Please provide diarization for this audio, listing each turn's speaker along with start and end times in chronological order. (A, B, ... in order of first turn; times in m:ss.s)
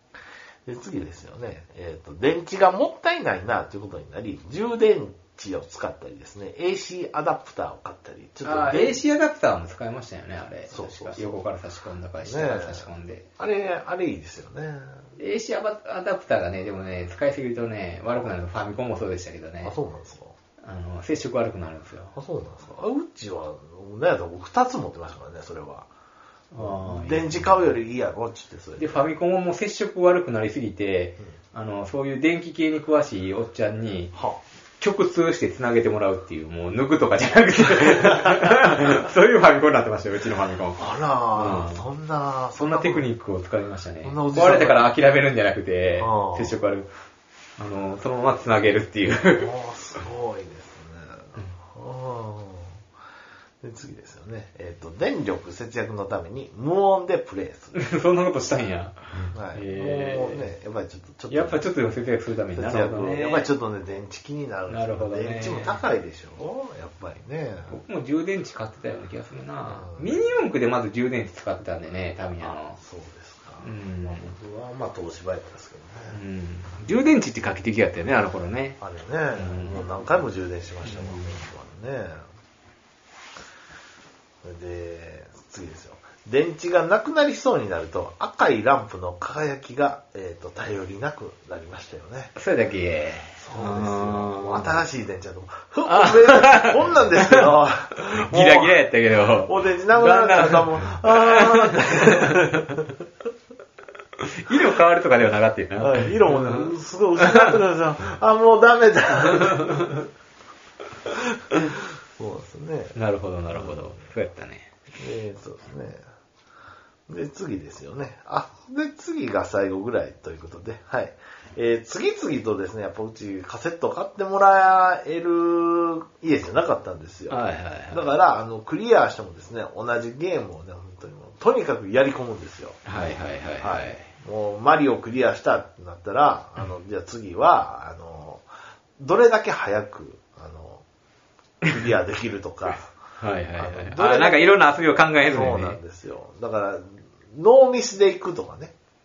0:00.6-0:09.0 A
0:08.4-0:13.3 B
0:10.7-0:11.4 A
0:12.2-0:15.0 A
0:15.2-0:19.8 B
0:19.6-0:20.3 A
0:20.6-0:22.1 B
0:22.1-0:25.9 A
0:26.5-0:27.7 B
0:26.5-0:29.1 A
0:28.8-0:34.1 B
0:34.1-0:34.4 A
0:34.8-0:40.8 B
0:40.8-0:43.1 A
0:41.3-0:41.8 B
0:42.5-0:46.9 B
0:44.0-0:44.9 A
0:46.0-0:46.6 A
0:47.6-0:49.5 B
0:49.3-0:52.8 A
0:53.6-0:57.8 A
0:57.7-1:00.4 B
0:59.3-1:01.6 A
1:01.3-1:03.5 B
1:02.5-1:07.8 A
1:04.7-1:05.8 B
1:07.7-1:12.8 B
1:09.6-1:10.3 A
1:12.4-1:16.2 A
1:13.6-1:14.3 B
1:16.1-1:20.1 B
1:18.8-1:22.2 A
1:20.8-1:21.4 B
1:24.4-1:32.4 A
1:32.4-1:34.8 B
1:33.4-1:42.9 A
1:35.9-1:37.5 B
1:38.2-1:42.6 B
1:44.2-1:46.7 B
1:45.8-1:50.0 A
1:51.4-1:53.0 A
1:52.9-1:54.7 B
1:53.5-1:54.0 A
1:55.0-1:56.0 A
1:57.1-2:12.8 A
2:07.3-2:08.0 B
2:12.8-2:14.1 B
2:13.6-2:18.4 A
2:19.0-2:20.8 A
2:21.7-2:22.9 A
2:23.2-2:25.8 B
2:23.5-2:24.7 A
2:25.2-2:28.7 A